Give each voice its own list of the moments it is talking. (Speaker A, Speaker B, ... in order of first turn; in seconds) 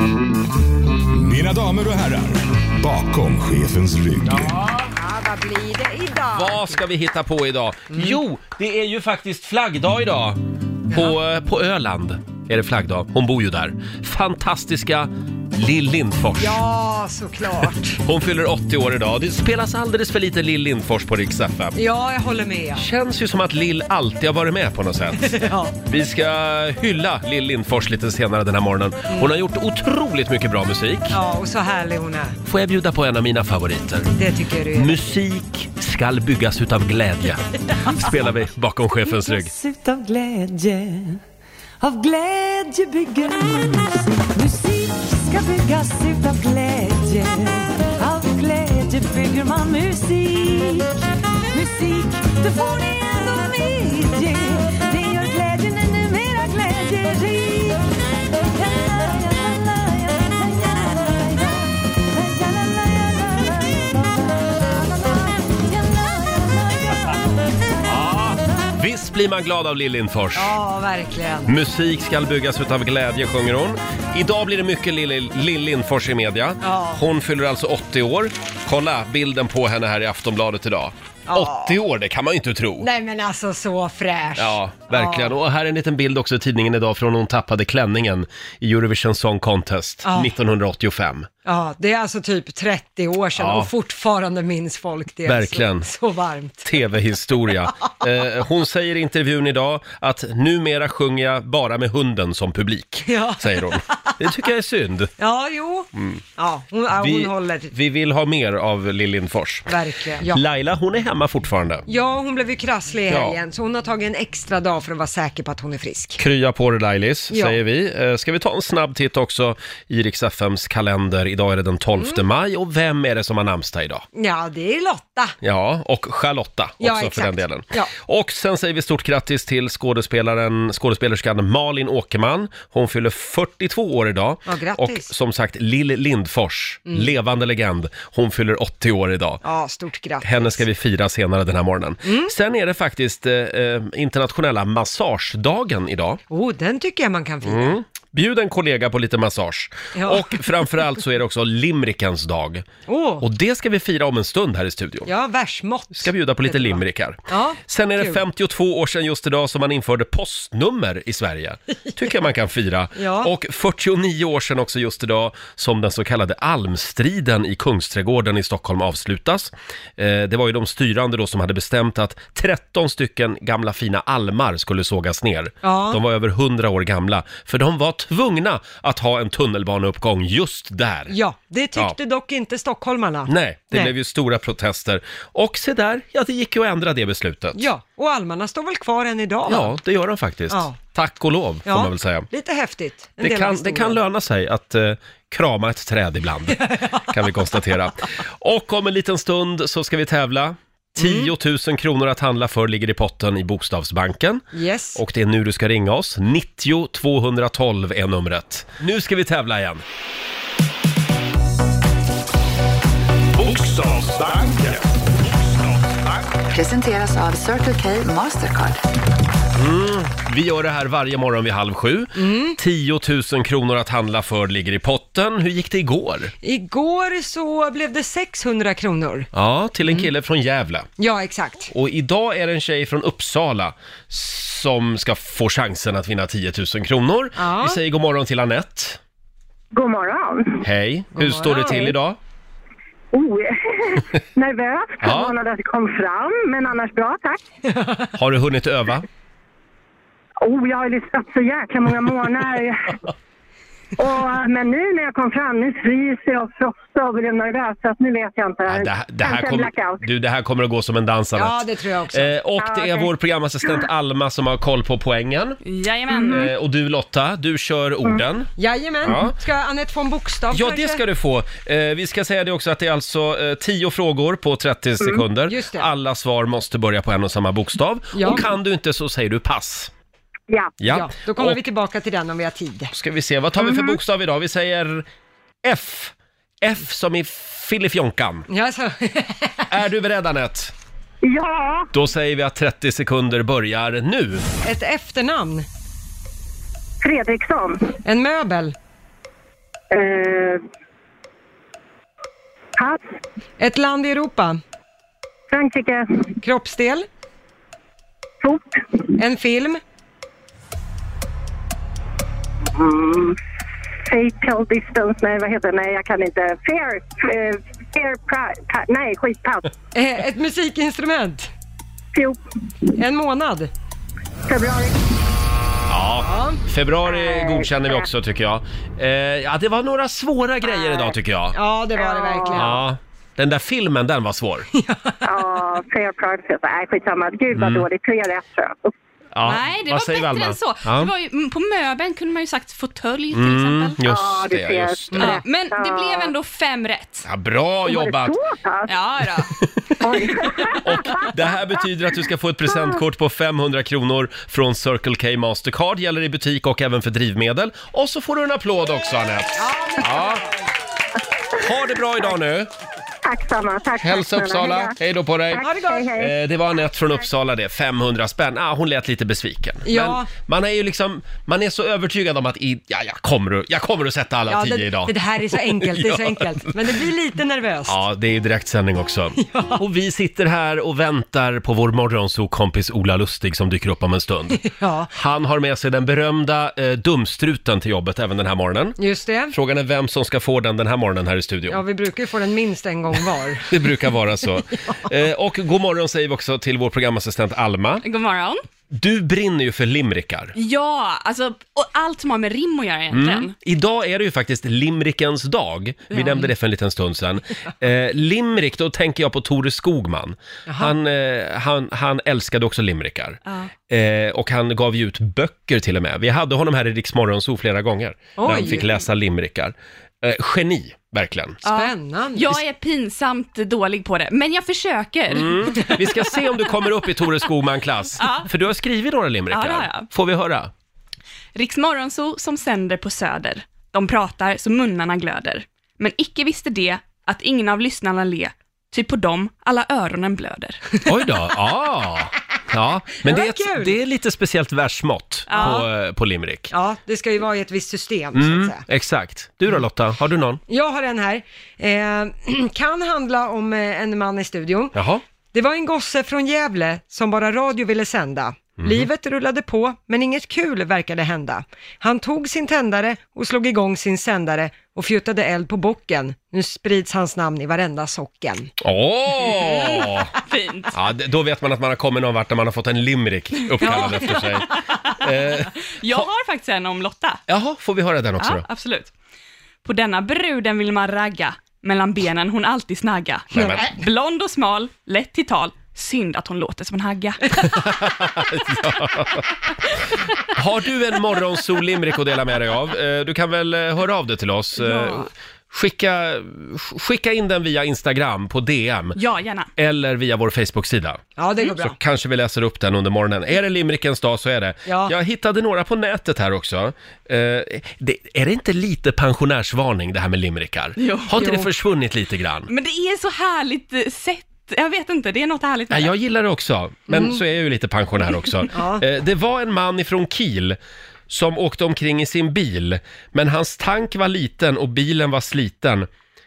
Speaker A: 1.1-4.5, 213.4-216.4
Speaker B: 4.3-4.9, 6.3-16.6, 18.0-21.8, 22.8-31.2, 32.5-34.1, 34.7-39.5, 67.9-70.5, 71.5-82.9, 84.4-91.3, 93.4-93.7, 95.3-95.9, 96.6-105.1, 106.0-106.2, 107.0-109.7, 110.2-111.8, 113.1-113.4, 116.2-124.0, 125.4-139.4, 140.2-146.2, 147.4-152.7, 153.2-155.1, 155.9-181.2, 183.3-187.7, 189.5-192.3, 193.2-209.8, 219.6-226.3, 229.3-230.9, 231.7-239.0, 240.6-242.2, 245.0-245.3, 248.2-249.1, 258.7-261.6, 262.1-265.6, 266.3-268.5, 269.1-269.4, 270.5-279.9, 280.8-281.6, 282.9-285.1, 285.6-288.5, 289.7-290.7, 291.9-294.4, 325.9-331.6, 332.5-334.7, 337.5-337.9, 339.3-341.1, 343.3-345.4, 347.2-348.4, 349.6-350.0, 350.7-360.5, 361.6-362.7, 364.0-365.6, 366.2-376.9, 377.9-384.6, 385.1-389.0, 389.5-391.8, 393.7-398.0, 398.9-400.6, 403.1-413.4, 413.9-421.6, 425.3-430.7, 441.1-446.7, 448.4-450.6, 454.9-455.2, 458.8-459.1, 468.8-470.3, 470.9-476.3, 477.5-478.6, 483.5-483.9, 487.6-489.5, 490.5-499.2, 499.8-512.7, 515.9-520.8, 521.3-526.1
Speaker C: 4.9-6.8, 7.9-8.2, 10.9-11.2, 16.4-18.0, 21.8-22.8, 25.2-25.7, 31.1-32.4, 34.2-35.2, 70.3-71.5, 76.6-77.0, 81.3-81.8, 82.8-85.3, 90.0-90.3, 91.5-96.7, 103.0-104.1, 105.2-107.7, 109.7-110.4, 111.9-116.2, 117.3-117.6, 124.2-125.3, 126.8-127.9, 134.5-135.1, 139.4-140.6, 142.1-142.3, 146.3-147.8, 149.9-150.3, 152.9-153.2, 155.1-158.2, 162.9-163.3, 175.6-176.0, 181.1-183.9, 187.6-189.7, 190.5-190.8, 191.7-194.0, 196.5-197.0, 201.0-201.3, 204.5-205.0, 222.2-222.6, 226.4-229.3, 231.0-231.7, 237.4-237.8, 241.1-242.0, 247.7-248.1, 261.4-262.3, 268.6-271.0, 275.5-275.9, 278.1-278.5, 280.9-282.9, 288.5-289.7, 294.6-295.7, 298.0-298.8, 303.6-304.6, 306.4-307.1, 309.2-309.8, 319.9-321.5, 323.0-323.7, 326.2-326.6, 331.5-332.8, 334.7-335.3, 345.1-345.4, 359.6-360.6, 365.6-366.1, 369.9-370.3, 374.5-378.0, 379.4-379.8, 384.6-385.1, 389.0-389.6, 391.7-393.8, 410.7-410.9, 418.4-418.9, 421.6-422.6, 443.2-444.0, 445.5-445.9, 446.7-448.8, 450.7-455.0, 455.5-468.7, 473.8-474.6, 501.4-502.0, 504.9-505.1, 511.4-511.7, 517.1-517.4, 518.7-519.0
Speaker D: 39.0-41.2, 41.8-50.9, 51.5-57.8, 58.5-67.2
Speaker E: 216.5-218.8
Speaker F: 239.7-240.6, 243.1-247.4, 250.4-253.0, 254.0-260.0, 262.6-263.1, 280.5-280.8, 283.6-284.0, 291.2-291.9, 297.0-297.9, 299.9-300.6, 302.8-303.1, 305.5-306.3, 308.4-309.1, 312.7-313.4, 314.0-319.7, 322.1-322.4, 324.5-324.9, 327.1-328.1, 330.6-331.1, 331.9-332.7, 335.2-338.9, 344.0-346.3, 347.9-348.9, 350.0-351.3, 363.2-364.9, 365.5-366.4
Speaker G: 265.6-266.5, 339.4-344.0, 345.2-347.3, 348.9-349.5, 398.0-398.6, 400.6-403.5, 406.1-406.5, 421.6-426.4, 428.2-428.5, 429.5-430.1, 431.6-440.8, 445.5-445.9, 469.5-470.9, 473.8-477.4, 478.4-479.1, 479.8-487.7, 499.1-499.7, 511.0-511.5, 512.7-516.1